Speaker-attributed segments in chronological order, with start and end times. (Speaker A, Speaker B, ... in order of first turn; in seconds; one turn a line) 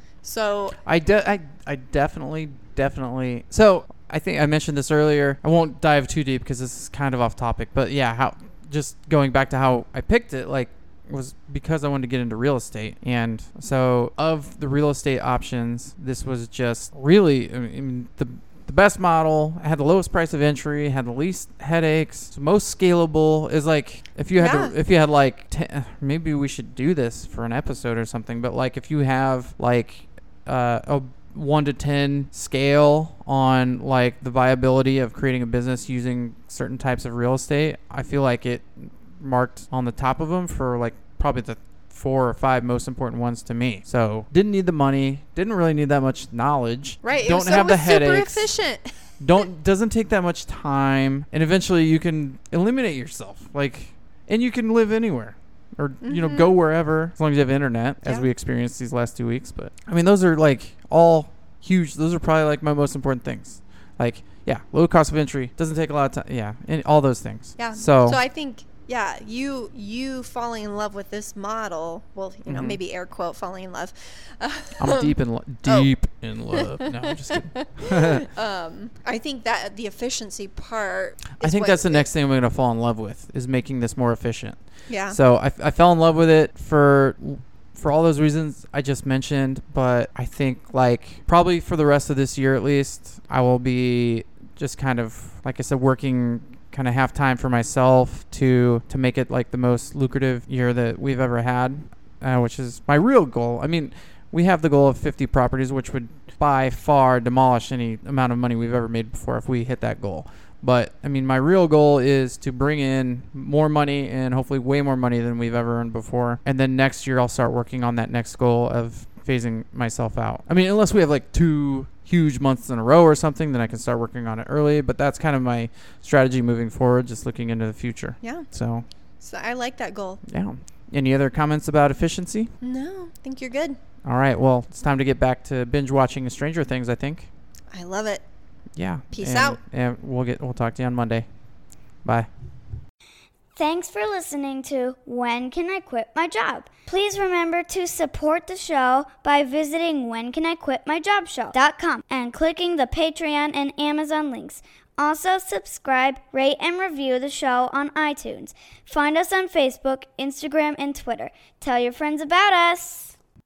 Speaker A: 0.2-0.8
Speaker B: 0.8-48.5
Speaker A: 24.4-24.8
Speaker A: 47.0-49.0
Speaker B: 49.2-68.2
Speaker A: 56.0-56.5
Speaker A: 67.6-75.9
Speaker B: 72.5-72.8
Speaker B: 74.8-78.2
Speaker A: 76.5-82.1
Speaker B: 81.4-128.9
Speaker A: 84.9-85.2
Speaker A: 128.2-128.5
Speaker A: 129.2-130.2
Speaker B: 130.2-132.5
Speaker A: 132.6-133.8
Speaker B: 134.0-137.3
Speaker A: 137.7-138.2
Speaker B: 138.8-141.3
Speaker A: 139.1-139.6
Speaker B: 142.0-142.3
Speaker C: 143.6-163.1